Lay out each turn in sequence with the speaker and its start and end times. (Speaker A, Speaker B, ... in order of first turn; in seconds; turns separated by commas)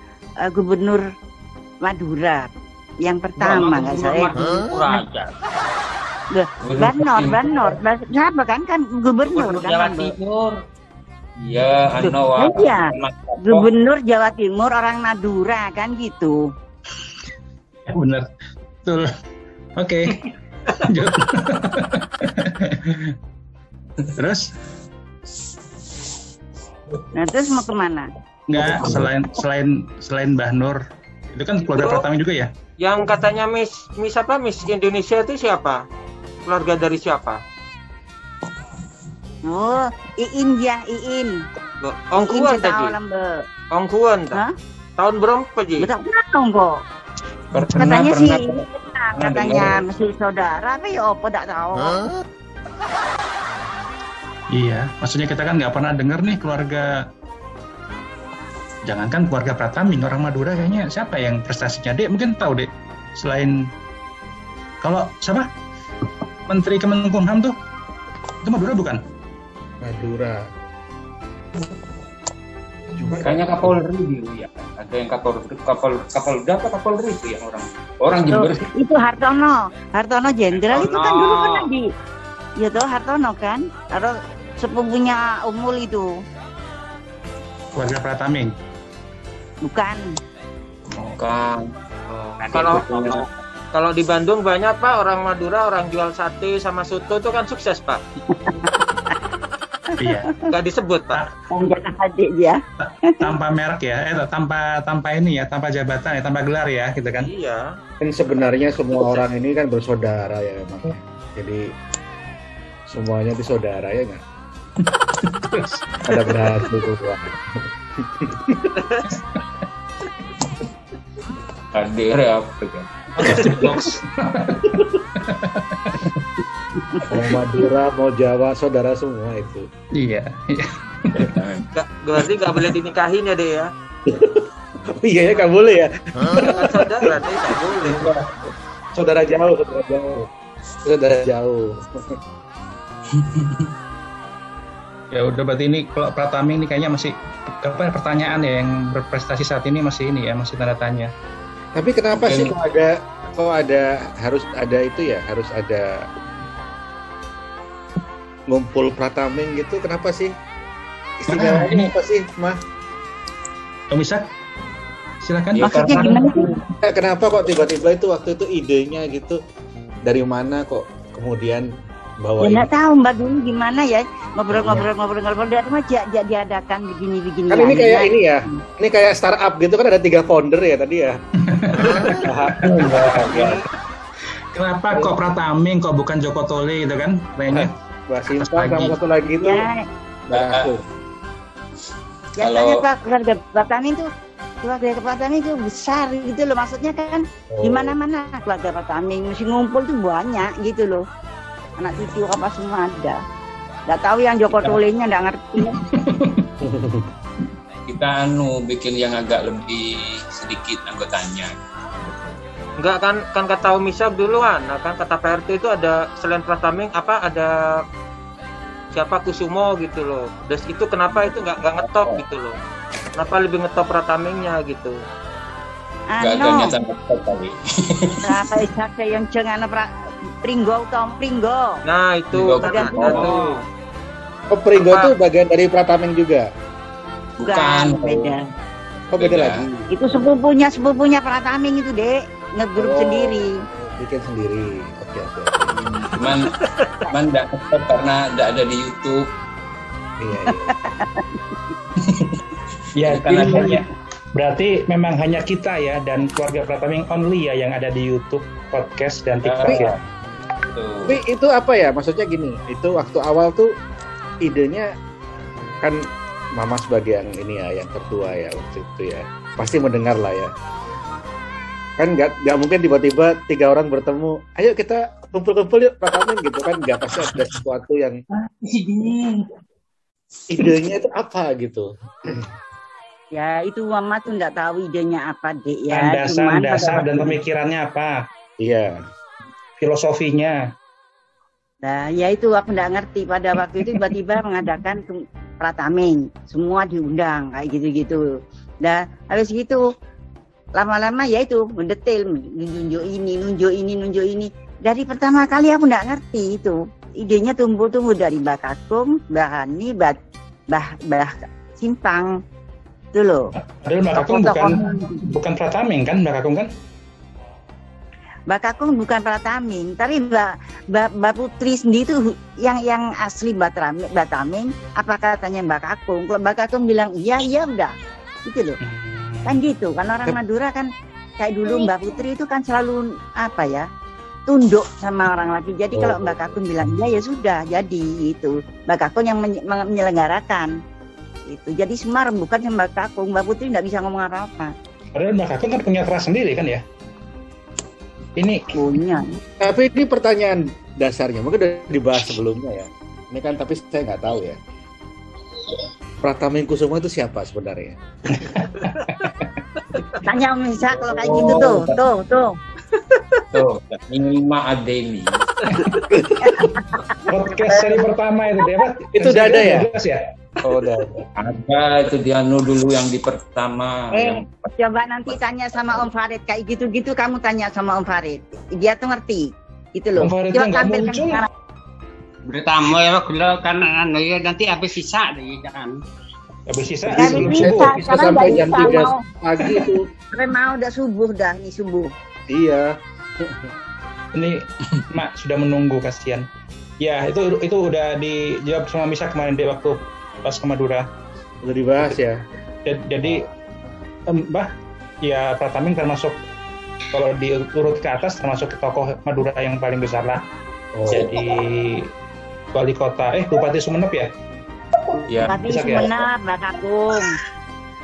Speaker A: 0.4-1.0, Speaker A: 1.8-2.5, Speaker A: 3.0-4.3, Speaker B: 3.4-5.3, Speaker A: 6.3-10.2, Speaker C: 6.6-7.7, Speaker B: 9.3-10.6, Speaker C: 11.4-13.7, Speaker A: 12.0-16.5, Speaker D: 17.9-18.3, Speaker D: 18.8-19.1, Speaker D: 19.8-20.2, Speaker D: 20.8-23.2, Speaker D: 24.1-24.5, Speaker A: 27.1-28.1, Speaker D: 28.5-30.8, Speaker D: 31.3-32.5, Speaker E: 31.7-32.0, Speaker E: 32.8-35.8, Speaker E: 36.5-37.4, Speaker A: 39.5-41.4, Speaker E: 41.8-43.0, Speaker A: 42.2-43.4, Speaker E: 43.7-44.4, Speaker E: 45.0-45.9, Speaker A: 45.8-46.8, Speaker D: 47.5-48.6, Speaker A: 47.8-52.0, Speaker D: 49.2-49.8, Speaker C: 49.4-49.7, Speaker D: 54.5-57.0, Speaker D: 58.9-63.6, Speaker D: 64.8-65.5, Speaker D: 66.5-67.5, Speaker D: 68.4-69.0, Speaker F: 69.8-70.4, Speaker F: 72.9-73.8, Speaker C: 73.2-78.7, Speaker A: 78.3-81.9, Speaker B: 80.7-81.7, Speaker A: 82.6-86.1, Speaker D: 87.8-88.5, Speaker A: 89.7-90.0, Speaker C: 90.9-93.3, Speaker B: 92.4-93.3, Speaker E: 92.5-92.9, Speaker E: 93.7-98.0, Speaker A: 98.3-99.1, Speaker D: 100.0-100.3, Speaker E: 100.5-101.2, Speaker A: 101.5-103.2, Speaker D: 102.8-107.3, Speaker E: 107.2-107.7, Speaker F: 108.0-111.7, Speaker F: 112.9-114.2, Speaker D: 114.8-116.5, Speaker F: 116.1-118.7, Speaker E: 118.8-119.2, Speaker C: 121.7-123.5, Speaker D: 123.2-126.2, Speaker E: 123.2-123.7, Speaker F: 127.0-129.7, Speaker D: 129.9-131.3, Speaker C: 131.1-131.7, Speaker E: 131.8-133.7, Speaker F: 134.1-138.1, Speaker E: 136.4-138.1, Speaker F: 138.9-140.3, Speaker F: 140.8-141.9, Speaker D: 143.1-143.7, Speaker D: 145.1-151.1, Speaker F: 151.8-156.1, Speaker C: 152.1-152.6, Speaker F: 158.5-160.3, Speaker F: 161.2-162.6, Speaker D: 161.3-161.9, Speaker D: 163.9-164.3, Speaker D: 165.2-166.4, Speaker C: 165.6-166.6, Speaker A: 165.6-166.6, Speaker F: 166.8-169.4, Speaker F: 170.1-171.7, Speaker F: 172.2-172.7, Speaker A: 172.4-178.6, Speaker F: 177.5-181.2, Speaker D: 181.4-182.3, Speaker F: 181.7-183.7, Speaker C: 182.6-183.6, Speaker D: 184.5-187.7, Speaker F: 187.5-189.7, Speaker D: 188.4-189.0, Speaker A: 189.4-189.8, Speaker F: 190.3-190.8, Speaker C: 190.3-190.7, Speaker A: 192.4-194.1, Speaker C: 192.4-192.8, Speaker A: 194.6-201.0, Speaker F: 197.5-197.9, Speaker A: 201.8-203.2, Speaker A: 203.9-205.8, Speaker D: 205.6-206.5, Speaker F: 206.6-207.1, Speaker C: 207.9-211.6, Speaker E: 212.8-217.8, Speaker E: 218.9-222.6, Speaker C: 221.1-222.2, Speaker E: 223.2-225.0, Speaker A: 226.1-226.7, Speaker C: 226.2-228.4, Speaker A: 228.2-231.8, Speaker E: 231.8-233.6, Speaker C: 232.3-233.4, Speaker A: 232.6-232.9, Speaker B: 233.0-233.6, Speaker F: 234.5-236.5, Speaker E: 234.7-235.1, Speaker C: 237.4-238.4, Speaker A: 237.4-238.4, Speaker F: 239.1-239.8, Speaker C: 239.2-239.7, Speaker A: 239.9-243.6, Speaker F: 242.8-245.8, Speaker C: 245.7-246.6, Speaker C: 247.1-249.3, Speaker F: 250.2-250.7, Speaker A: 250.5-251.4, Speaker D: 253.0-259.9, Speaker C: 253.0-253.9, Speaker C: 259.4-260.0, Speaker C: 260.7-261.2, Speaker F: 261.1-263.7, Speaker F: 264.4-264.9, Speaker F: 266.6-270.5, Speaker F: 272.0-278.2, Speaker B: 278.6-279.5, Speaker F: 280.5-282.5, Speaker A: 283.3-287.4, Speaker D: 285.9-288.2, Speaker F: 288.6-289.0, Speaker D: 289.8-290.6, Speaker A: 291.8-298.2, Speaker A: 298.8-299.8, Speaker A: 300.8-310.2, Speaker A: 310.7-312.3, Speaker A: 313.1-313.5, Speaker D: 313.6-316.7, Speaker A: 314.1-315.2, Speaker A: 318.5-327.9, Speaker A: 328.5-328.8, Speaker D: 328.8-329.6, Speaker A: 329.5-330.9, Speaker A: 331.4-333.9, Speaker A: 334.5-340.7, Speaker F: 335.9-336.6, Speaker A: 341.5-344.7, Speaker D: 345.1-346.8, Speaker D: 348.4-348.7, Speaker A: 348.8-349.4, Speaker F: 349.6-354.6, Speaker F: 356.2-358.0, Speaker D: 358.3-359.6, Speaker A: 360.2-362.6, Speaker C: 360.9-362.0, Speaker C: 363.5-365.4, Speaker D: 365.7-366.0, Speaker F: 366.1-366.6, Speaker A: 366.4-367.2, Speaker D: 367.3-370.2, Speaker F: 369.1-369.9, Speaker F: 370.6-371.2, Speaker C: 371.4-374.5, Speaker A: 374.1-381.5, Speaker D: 380.2-381.4, Speaker B: 382.5-386.0, Speaker D: 386.7-388.2, Speaker F: 387.1-390.1, Speaker A: 387.1-389.2, Speaker A: 390.3-392.1, Speaker F: 392.5-393.7, Speaker D: 394.3-396.5, Speaker D: 397.0-401.1, Speaker F: 401.6-402.4, Speaker D: 402.9-403.5, Speaker D: 404.3-404.7, Speaker D: 405.2-406.4, Speaker D: 407.1-410.4, Speaker F: 410.9-411.4, Speaker D: 411.1-412.1, Speaker D: 412.7-414.3, Speaker C: 415.3-415.6, Speaker A: 415.5-417.4, Speaker D: 415.5-416.1